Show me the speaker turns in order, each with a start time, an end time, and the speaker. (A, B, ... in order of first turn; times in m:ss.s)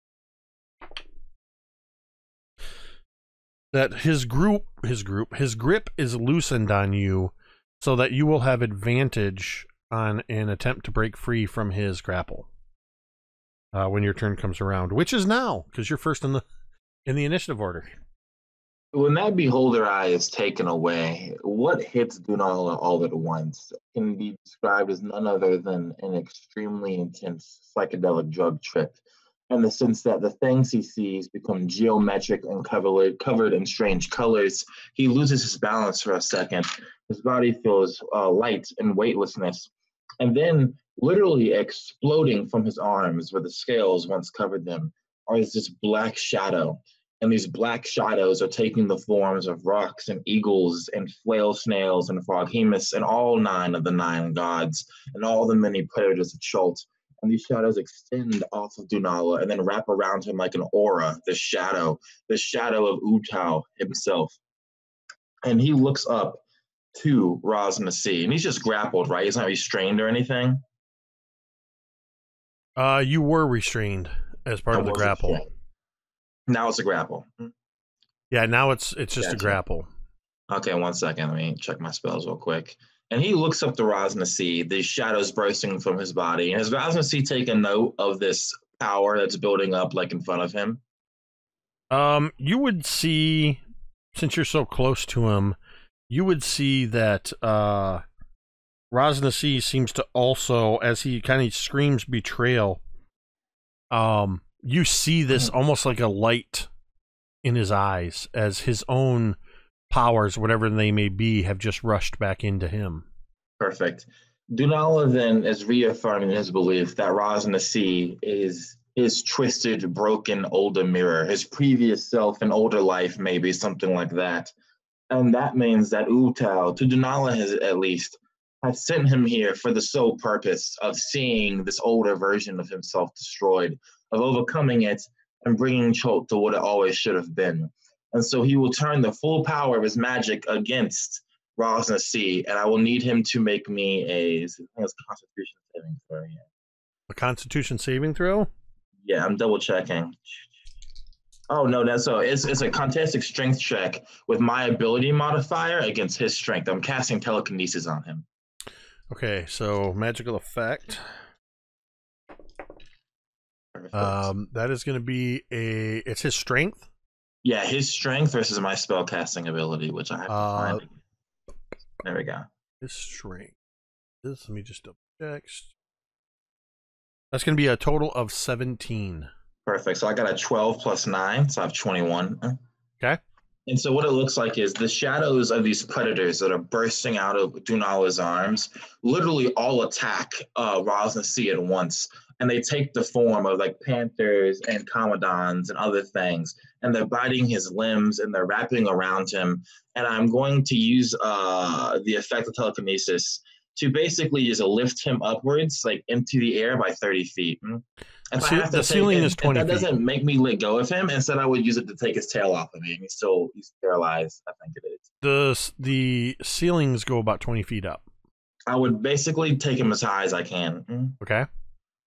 0:03.7-0:12.5 A
0:13.7-0:16.4 A
0:17.0-0:17.9 A
0:18.9-0:39.7 B
0:40.2-1:04.4 B
1:05.4-1:06.4 B
1:06.9-1:10.6 B
1:12.8-1:15.4 A
1:14.7-1:15.5 B
1:16.5-1:17.5 B
1:18.3-1:19.9 A
1:19.2-1:19.6 B
1:20.5-1:30.8 B
1:31.9-1:33.6 A
1:34.1-1:35.6 A
1:36.1-1:38.0 A
1:38.9-1:42.8 A
1:43.9-1:46.7 A
1:47.4-1:49.4 A
1:49.9-1:53.0 A
1:53.6-2:04.5 B
2:05.1-2:26.4 B
2:27.1-2:28.5 A
2:29.0-2:30.4 B
2:31.5-2:38.2 B
2:39.1-2:41.1 A
2:43.7-2:44.3 B
2:43.9-2:46.9 A
2:47.4-2:50.9 B
2:50.3-2:50.8 A
2:52.0-2:52.4 B
2:52.8-2:53.5 A
2:54.2-2:55.7 A
2:57.3-2:59.3 A
2:59.6-3:02.6 B
3:03.7-3:35.0 B
3:28.4-3:29.9 A
3:35.2-3:38.0 A
3:38.7-3:41.2 B
3:41.2-3:41.5 A